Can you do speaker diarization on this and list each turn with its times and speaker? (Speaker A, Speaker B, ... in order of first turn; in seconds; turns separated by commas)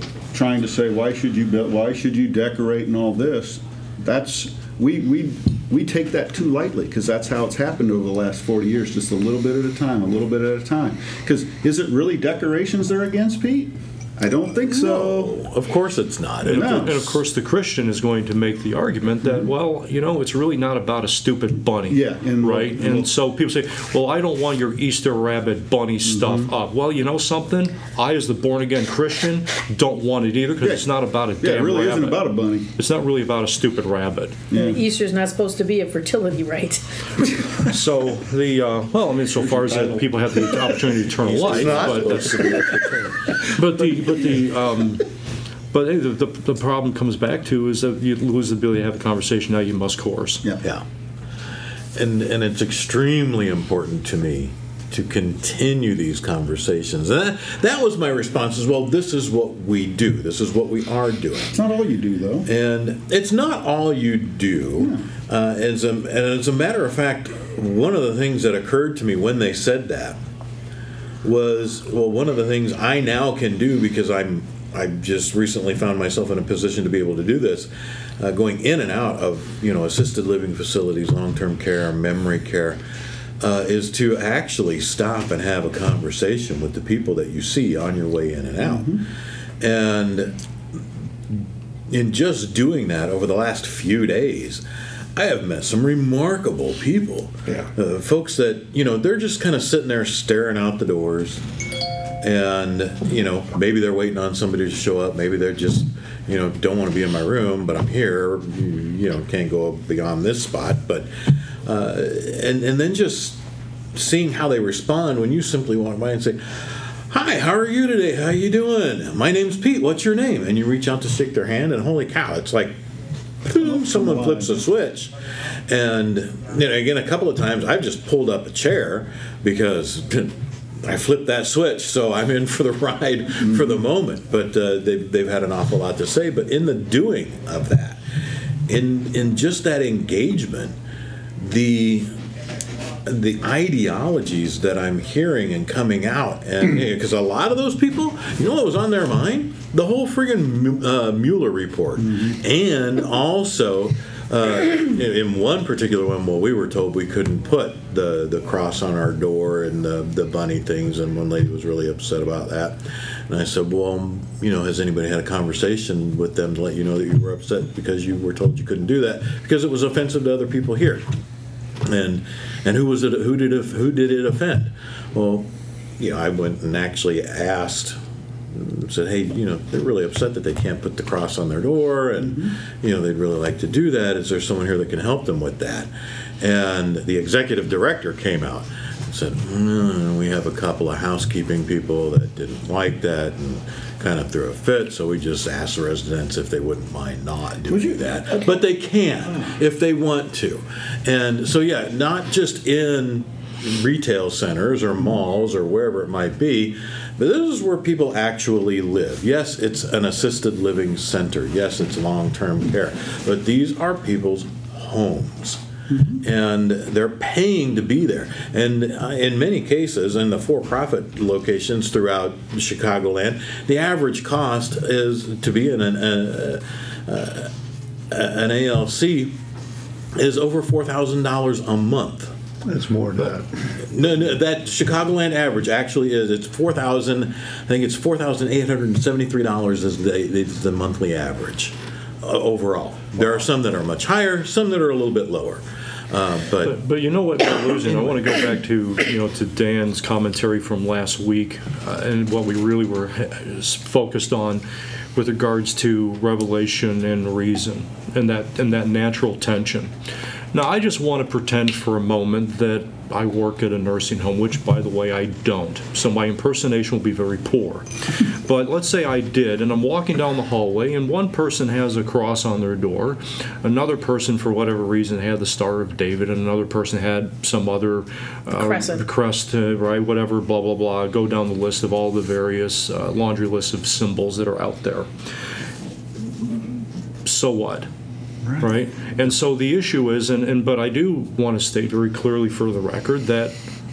Speaker A: 0.3-15.4, Speaker B: 14.6-17.1, Speaker C: 16.4-32.2, Speaker A: 16.5-17.1, Speaker A: 19.2-19.5, Speaker A: 21.9-23.1, Speaker A: 26.1-26.5, Speaker A: 30.6-32.7, Speaker C: 32.8-34.5, Speaker A: 34.5-34.8, Speaker D: 34.5-37.3, Speaker C: 37.7-42.6, Speaker A: 39.5-40.1, Speaker B: 41.2-43.1, Speaker E: 41.5-42.7, Speaker C: 43.5-45.1, Speaker C: 45.7-50.4, Speaker B: 51.9-61.6, Speaker A: 61.5-62.5, Speaker B: 62.5-70.2, Speaker A: 64.8-65.0, Speaker B: 71.2-82.8, Speaker B: 83.4-89.0, Speaker A: 88.6-89.0, Speaker B: 89.6-90.4, Speaker B: 91.3-94.6, Speaker B: 95.2-101.4, Speaker B: 102.2-111.1, Speaker B: 111.6-113.4, Speaker B: 113.9-122.8, Speaker B: 123.4-125.1, Speaker A: 123.6-124.6, Speaker B: 125.7-138.0, Speaker B: 138.7-140.7, Speaker B: 141.4-142.1, Speaker B: 143.0-171.0, Speaker A: 152.0-152.3, Speaker B: 171.8-178.0, Speaker B: 178.5-215.6, Speaker A: 182.2-182.5, Speaker A: 215.9-216.2, Speaker B: 216.2-227.5, Speaker B: 228.1-229.3, Speaker B: 230.1-232.3, Speaker E: 232.6-233.6, Speaker B: 233.8-246.8, Speaker C: 246.6-254.6, Speaker C: 255.1-259.9, Speaker C: 260.5-285.1, Speaker D: 278.5-279.0, Speaker C: 287.2-287.9, Speaker A: 288.4-288.7, Speaker C: 288.6-293.5